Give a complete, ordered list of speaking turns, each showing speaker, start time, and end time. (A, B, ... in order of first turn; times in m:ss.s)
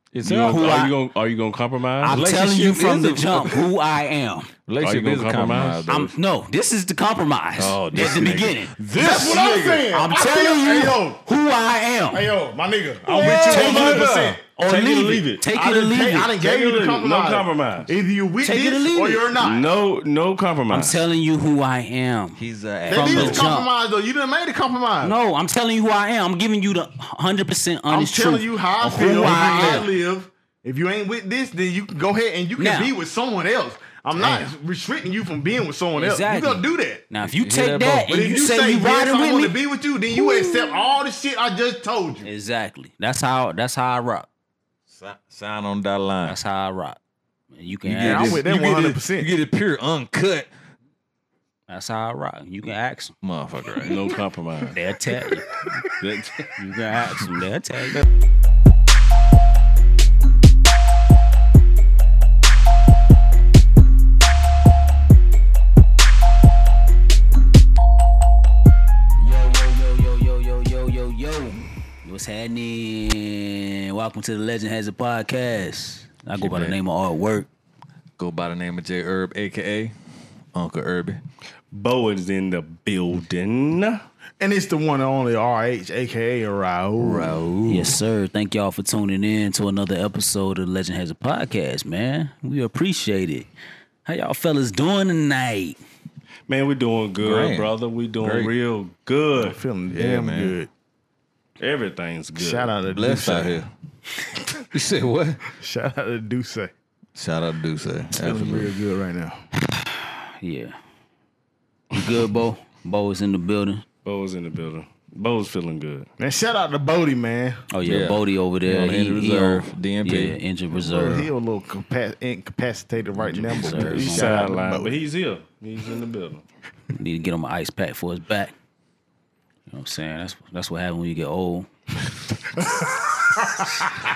0:00.1-0:00.8 A
0:00.2-0:02.2 B
0:00.4-0:01.0 C
0:02.0-0:04.5 C
0:02.1-0:03.7 A
0:04.7-0:06.0 A
0:04.8-0:06.1 B
0:05.9-0:12.3 C
0:07.6-0:09.9 A
0:09.0-0:11.2 D
0:12.1-0:14.4 D
0:13.1-0:16.4 C
0:13.2-0:14.4 A
0:13.2-0:15.5 B
0:15.5-0:19.7 D
0:16.4-0:17.9 B
0:18.4-0:19.2 C
0:19.4-0:21.0 B
0:20.7-0:23.7 C
0:22.4-0:23.5 A
0:22.9-0:25.2 D
0:25.0-0:29.9 C
0:27.9-0:37.0 D
0:32.6-0:32.9 C
0:34.2-0:34.5 C
0:36.0-0:39.6 C
0:37.4-0:38.2 A
0:38.1-0:42.3 D
0:40.1-0:40.8 C
0:42.2-0:44.3 C
0:44.9-0:46.4 A
0:46.2-0:47.0 C
0:47.6-0:48.5 C
0:47.8-0:50.5 A
0:48.0-0:49.3 D
0:51.7-0:53.1 C
0:53.2-0:54.0 A
0:53.8-0:54.8 B
0:54.7-0:55.5 C
0:56.0-0:56.5 B
0:56.6-0:58.0 C
1:09.2-1:17.5 C
1:16.4-1:16.8 A
1:18.2-1:19.9 A
1:20.5-1:21.2 A
1:21.7-1:24.0 B
1:24.4-1:28.0 D
1:27.0-1:33.5 C
1:34.1-1:35.8 C
1:36.5-1:39.6 B
1:37.2-1:38.5 A
1:39.4-1:40.7 D
1:39.9-1:40.6 A
1:41.6-1:42.7 B
1:42.4-1:43.6 D
1:42.9-1:43.7 A
1:44.7-1:45.4 A
1:45.6-1:46.7 D
1:47.2-1:48.7 A
1:48.1-1:49.4 D
1:49.6-1:50.8 C
1:51.9-1:53.8 C
1:54.0-1:56.1 B
1:56.2-1:57.6 D
1:57.7-2:01.3 C
1:57.8-2:00.4 A
2:00.7-2:05.0 D
2:03.2-2:04.4 C
2:03.7-2:06.4 B
2:06.9-2:08.5 C
2:09.7-2:11.7 C
2:13.4-2:13.7 D